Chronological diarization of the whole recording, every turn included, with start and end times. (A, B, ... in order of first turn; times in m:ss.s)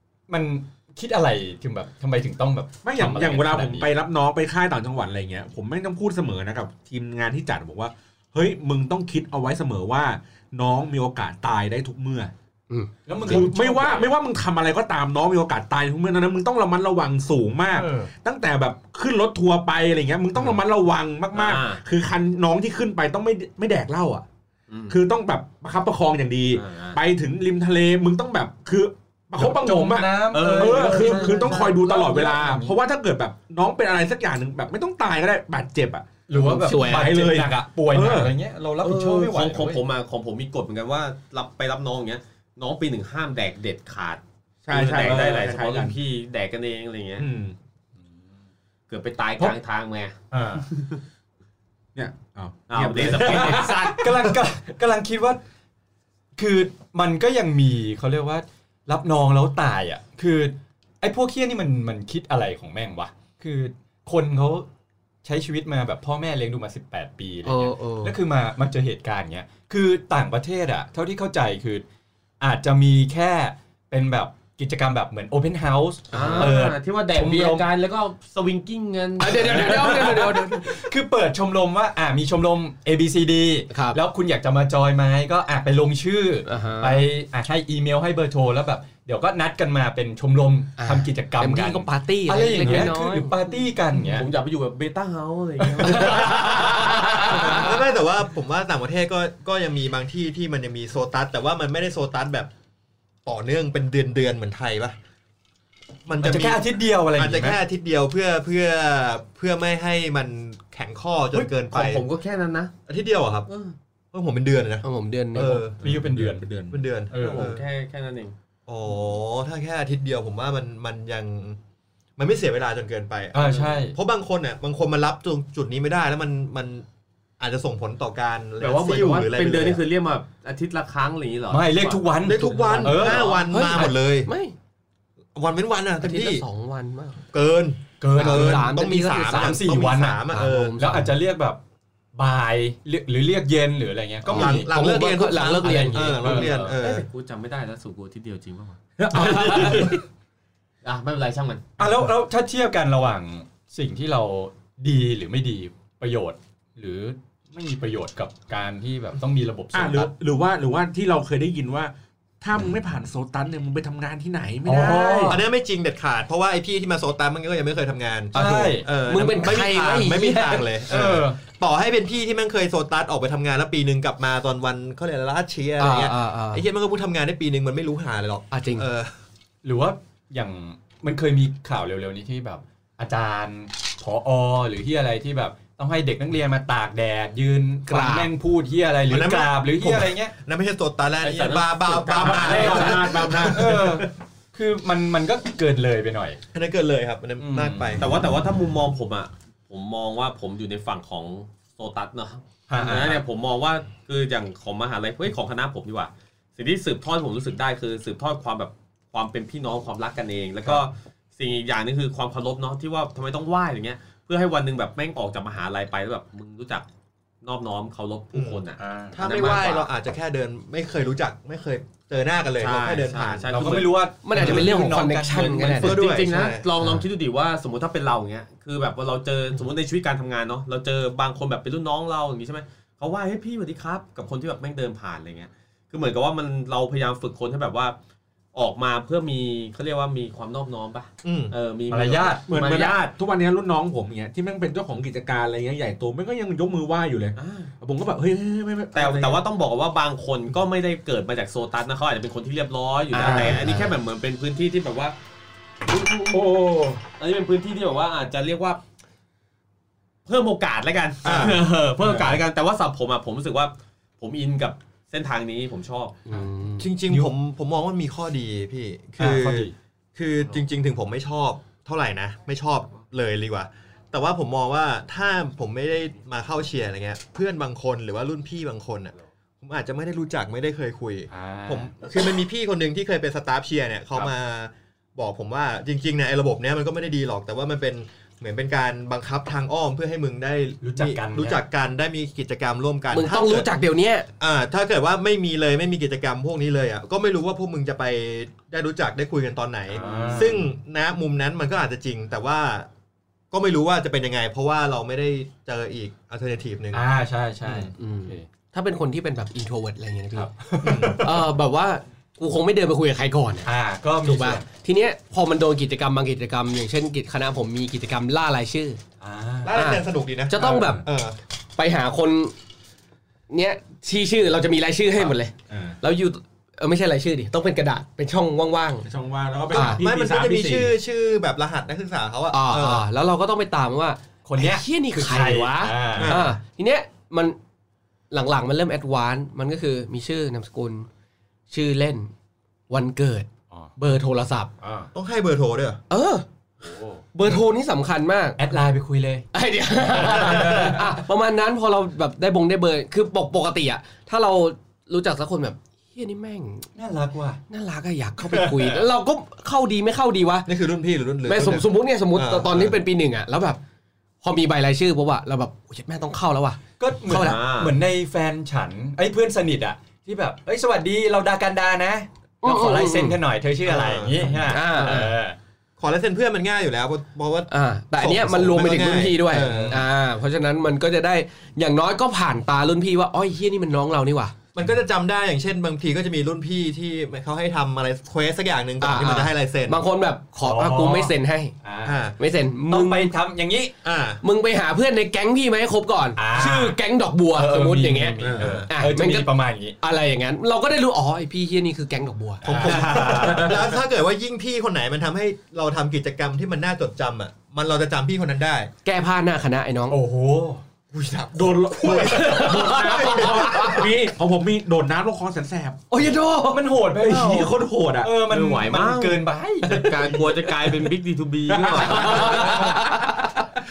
0:00.3-0:03.9 A
0:02.8-0:12.3 B
0:12.7-0:13.4 C
0:13.1-0:14.1 A
0:13.2-0:24.2 B
0:17.7-0:18.1 A
0:21.3-0:21.8 D
0:24.7-0:25.0 D
0:24.9-0:38.3 B
0:26.5-0:27.0 D
0:29.4-0:32.8 A
0:30.3-0:31.7 D
0:36.3-0:39.8 A
0:36.4-0:37.4 C
0:38.8-0:47.3 D
0:44.7-0:46.0 B
0:47.2-0:47.6 B
0:48.9-0:51.0 D
0:50.3-0:50.6 A
0:52.0-0:54.1 B
0:52.7-0:54.1 D
0:53.2-0:55.4 A
0:56.4-1:04.7 A
1:05.2-1:11.8 A
1:07.5-1:08.2 C
1:12.4-1:17.7 A
1:16.1-1:16.5 C
1:16.1-1:20.1 D
1:19.2-1:20.8 C
1:19.2-1:34.3 A
1:23.7-1:24.0 C
1:26.5-1:27.0 C
1:30.8-1:33.3 C
1:34.0-1:37.8 D
1:35.8-1:37.4 A
1:36.0-1:37.6 C
1:37.4-1:42.5 E
1:43.2-1:45.0 E
1:46.1-1:52.0 E
1:46.2-1:47.6 A
1:51.3-1:52.7 D
1:52.9-1:53.5 E
1:53.5-1:53.8 D
1:54.1-1:55.8 E
1:54.8-1:55.7 C
1:55.8-1:56.5 A
1:55.8-1:56.8 B
1:56.7-1:57.6 E
1:57.1-1:57.5 A
1:57.2-1:58.4 D
1:58.7-2:01.6 E
2:02.2-2:06.9 E
2:03.3-2:04.0 A
2:07.4-2:09.8 E
2:08.6-2:13.5 D
2:11.5-2:13.9 A
2:12.2-2:14.3 E
2:13.5-2:14.6 C
2:15.4-2:16.4 E
2:16.0-2:17.2 C
2:17.3-2:20.8 E
2:18.0-2:18.7 A
2:18.1-2:19.6 C
2:19.3-2:21.6 A
2:20.3-2:21.1 C
2:22.2-2:24.7 A
2:24.3-2:27.1 E
2:24.3-2:26.4 C
2:25.6-2:26.8 A
2:26.3-2:28.8 D
2:29.0-2:29.9 B
2:29.1-2:30.0 A
2:30.8-2:31.6 D
2:31.8-2:40.1 A
2:39.7-2:45.4 B
2:44.6-2:45.4 A
2:45.3-2:59.1 E
2:48.3-2:48.9 A
2:48.4-2:50.7 C
2:50.9-2:51.4 A
2:55.8-2:56.6 C
2:58.5-2:58.9 C
2:59.6-3:10.3 A
3:07.9-3:08.3 C
3:09.1-3:13.5 E
3:11.2-3:13.4 D
3:12.1-3:14.1 B
3:12.5-3:16.4 A
3:16.5-3:18.0 E
3:17.4-3:18.0 A
3:18.0-3:36.8 D
3:22.7-3:23.2 A
3:37.4-3:39.9 D
3:38.3-3:43.8 E
3:38.8-3:39.2 A
3:42.6-3:44.0 D
3:43.5-3:46.0 A
3:44.2-3:46.0 C
3:44.4-3:44.7 E
3:45.8-3:46.7 E
3:45.8-3:58.0 D
3:58.5-4:03.1 D
4:01.2-4:01.5 E
4:01.9-4:02.5 A
4:02.5-4:09.4 B
4:07.4-4:07.7 D
4:08.9-4:15.2 D
4:13.1-4:13.6 C
4:13.2-4:13.7 B
4:13.2-4:13.7 E
4:15.9-4:16.4 D
4:16.3-4:17.0 B
4:17.2-4:18.8 D
4:20.3-4:26.2 D
4:21.2-4:21.6 E
4:26.3-4:26.9 C
4:26.8-4:53.7 E
4:29.2-4:29.8 A
4:41.3-4:41.9 A
4:50.8-4:51.6 A
4:53.1-4:54.3 C
4:54.4-5:02.9 E
4:59.9-5:00.7 A
5:00.0-5:00.3 D
5:03.5-5:07.0 E
5:06.9-5:08.5 A
5:08.0-5:13.7 C
5:10.3-5:11.4 A
5:10.8-5:11.2 E
5:13.6-5:14.6 A
5:14.2-5:19.0 C
5:19.2-5:19.8 A
5:19.6-5:21.4 E
5:19.7-5:21.0 C
5:21.8-5:22.5 C
5:23.5-5:29.1 C
5:25.7-5:26.0 B
5:29.0-5:30.9 B
5:29.7-5:30.0 C
5:29.7-5:33.0 E
5:32.5-5:37.6 C
5:34.4-5:36.4 A
5:36.2-5:36.6 E
5:38.3-5:41.1 C
5:41.7-5:42.3 C
5:42.9-5:44.7 C
5:44.8-5:45.1 A
5:45.1-5:46.0 E
5:46.1-5:46.4 C
5:46.8-5:47.2 A
5:47.3-5:48.6 C
5:48.6-5:49.5 A
5:49.5-5:56.9 C
5:50.1-5:51.0 A
5:57.0-5:57.6 A
5:57.7-6:00.7 C
5:58.4-5:59.0 A
6:00.7-6:03.0 E
6:01.5-6:03.8 C
6:04.4-6:07.6 C
6:07.0-6:15.6 A
6:07.3-6:07.9 D
6:12.6-6:13.4 C
6:13.8-6:15.3 E
6:14.7-6:15.3 C
6:16.0-6:20.0 E
6:17.7-6:24.6 C
6:19.6-6:20.0 A
6:24.7-6:30.0 E
6:29.0-6:31.7 C
6:30.6-6:32.2 A
6:32.0-6:32.4 E
6:32.4-6:33.3 C
6:32.9-6:33.9 A
6:34.0-6:34.4 E
6:34.4-6:39.5 C
6:36.4-6:37.0 A
6:37.5-6:40.0 A
6:38.4-6:38.9 E
6:40.0-6:43.6 C
6:42.6-6:48.9 E
6:42.7-6:43.9 A
6:43.4-6:43.7 B
6:49.0-6:50.2 C
6:50.1-6:50.8 A
6:51.1-6:53.9 E
6:51.5-6:56.3 B
6:52.0-6:54.1 C
6:52.6-6:53.7 D
6:56.1-6:56.9 C
6:56.7-7:00.2 A
6:57.2-6:58.3 B
6:58.5-7:03.0 D
7:01.7-7:02.7 B
7:02.0-7:02.4 E
7:02.0-7:03.5 C
7:02.1-7:03.1 A